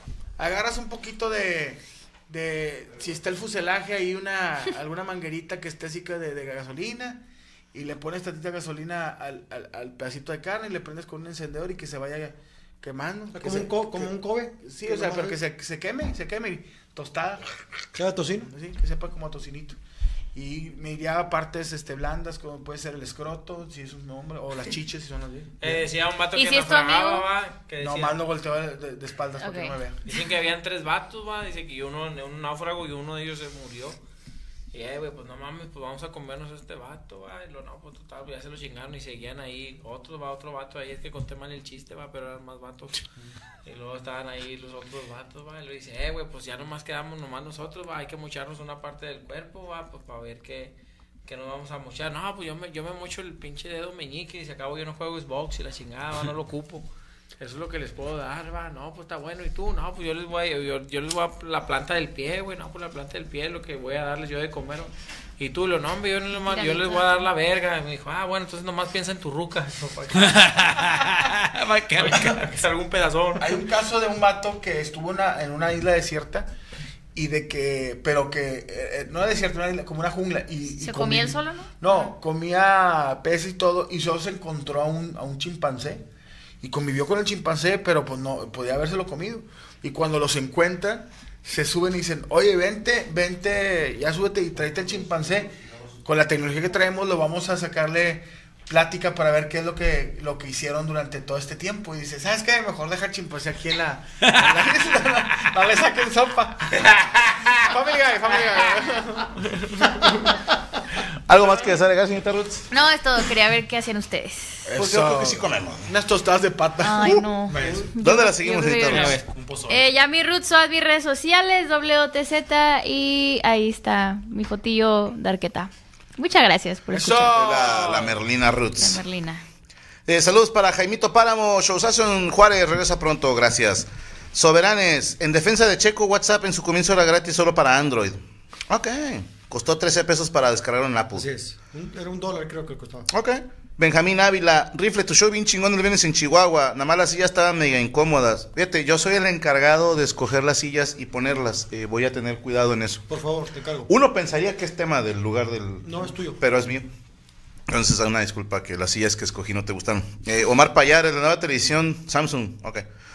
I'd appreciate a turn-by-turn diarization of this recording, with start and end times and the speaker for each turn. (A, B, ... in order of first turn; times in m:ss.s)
0:00.4-0:17.4 A
0:13.3-0:15.4 B
0:18.0-0:18.5 B
0:18.4-0:19.8 A
0:20.3-0:25.8 A
0:25.6-0:28.2 C
0:26.4-0:27.3 D
0:27.8-0:30.0 A
0:29.4-0:29.8 D
0:30.0-0:34.0 C
0:34.7-0:43.0 C
0:43.6-0:50.7 C
0:51.2-0:56.9 C
0:57.4-1:11.4 C
1:06.4-1:07.3 D
1:10.2-1:12.5 E
1:11.9-1:13.6 C
1:13.4-1:16.5 A
1:17.1-1:26.0 A
1:20.7-1:22.1 D
1:26.6-1:35.5 A
1:36.0-1:46.8 A
1:47.6-1:50.4 A
1:51.3-1:52.7 F
1:52.7-1:54.7 D
1:54.6-1:57.8 A
1:54.8-1:55.9 F
1:56.8-2:07.4 D
1:57.5-1:57.9 E
1:57.9-1:59.2 F
1:58.9-1:59.2 C
1:59.1-1:59.9 E
2:06.9-2:08.2 A
2:07.3-2:09.0 F
2:08.8-2:09.4 D
2:10.1-2:21.3 F
2:21.1-2:23.1 B
2:23.1-2:33.1 F
2:33.1-2:33.9 B
2:33.9-2:36.9 F
2:35.8-2:36.4 B
2:37.7-2:42.9 F